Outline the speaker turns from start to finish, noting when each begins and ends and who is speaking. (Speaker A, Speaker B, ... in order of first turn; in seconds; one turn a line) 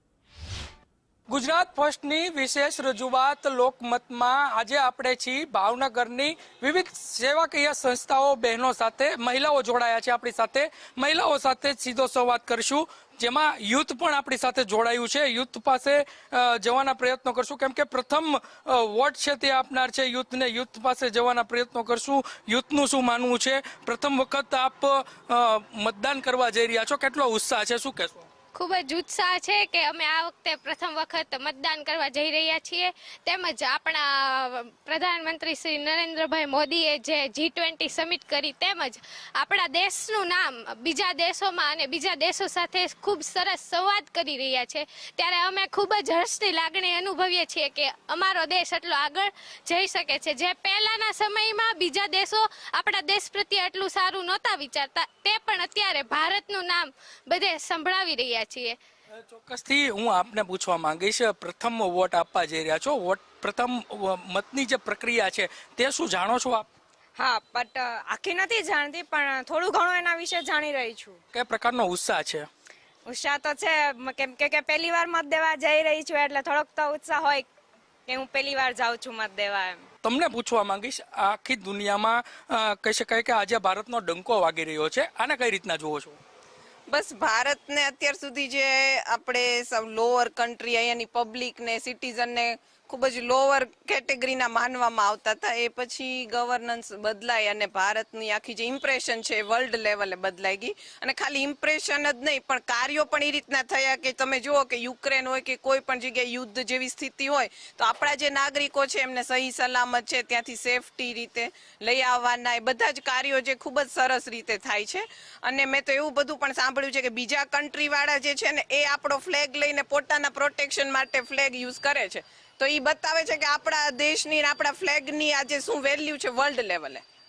Speaker A: 1.3-28.3
Speaker B: 28.5-58.8
Speaker A: 59.2-66.7
Speaker C: 67.2-71.2
Speaker A: 71.3-72.5
Speaker C: 73.1-77.5
Speaker C: 78.1-79.8
Speaker A: 80.0-86.2
Speaker D: 86.9-127.0